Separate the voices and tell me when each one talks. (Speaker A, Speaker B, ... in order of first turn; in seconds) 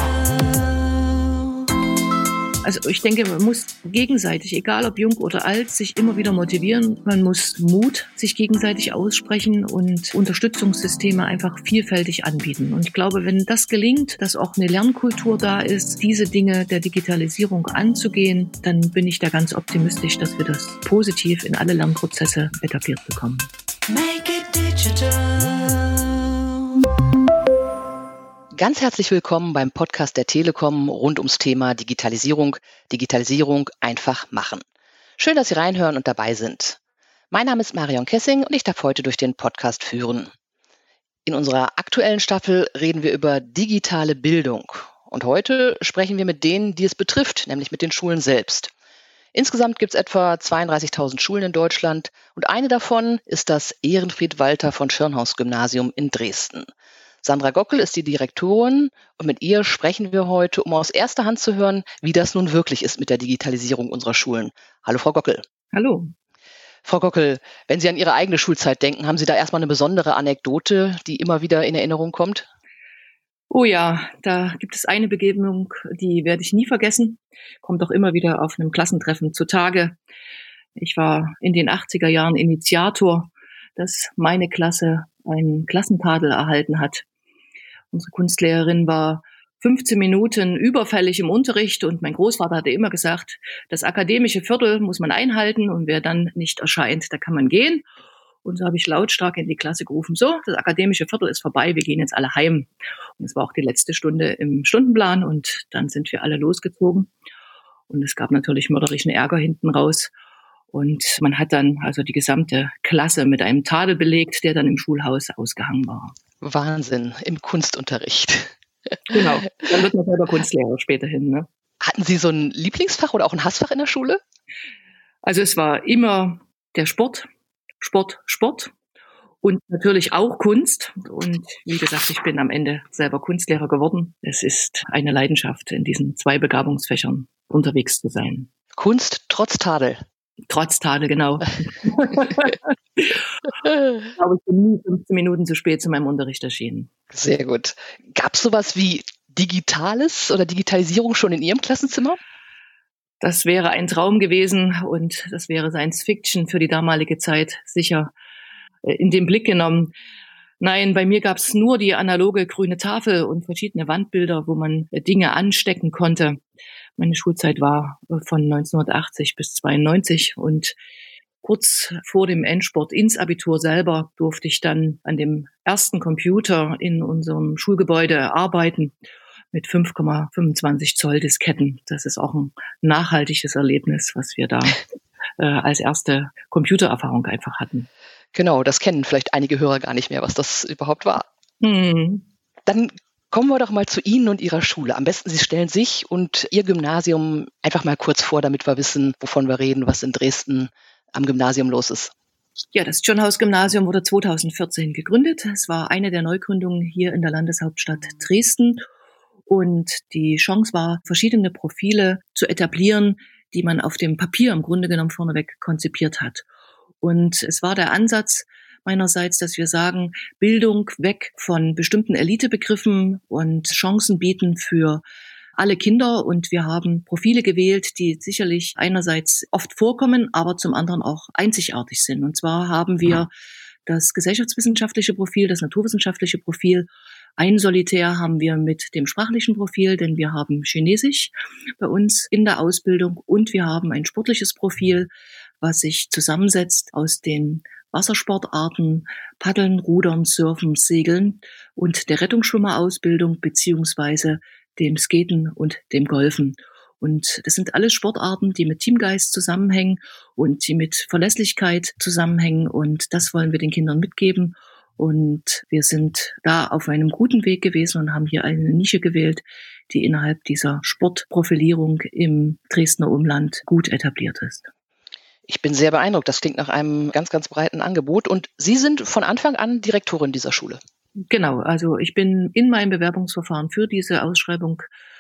Speaker A: 2.6-23.5, 65.7-66.1, 73.5-80.0, 80.8-87.0, 87.9-97.8, 98.4-107.1, 107.9-110.1, 110.7-116.1, 119.1-121.5, 125.2-127.3, 127.8-128.7, 129.4-138.5, 140.5-143.1, 144.0-146.9, 153.2-158.1, 158.8-159.9, 160.6-166.4, 167.0-170.8, 171.4-178.9, 179.5-184.8, 185.4-187.9, 191.6-192.2, 202.7-208.8, 209.5-216.4, 217.0-225.0, 225.6-233.3, 233.8-245.1, 245.6-274.7, 281.3-284.9
Speaker B: 28.5-34.6, 35.2-36.8, 37.3-40.3, 41.2-48.7, 49.3-56.7, 57.2-65.4, 66.8-72.5, 116.4-118.5, 121.8-124.2, 138.8-140.0, 147.1-152.2, 188.3-191.2, 192.7-202.1, 275.5-280.8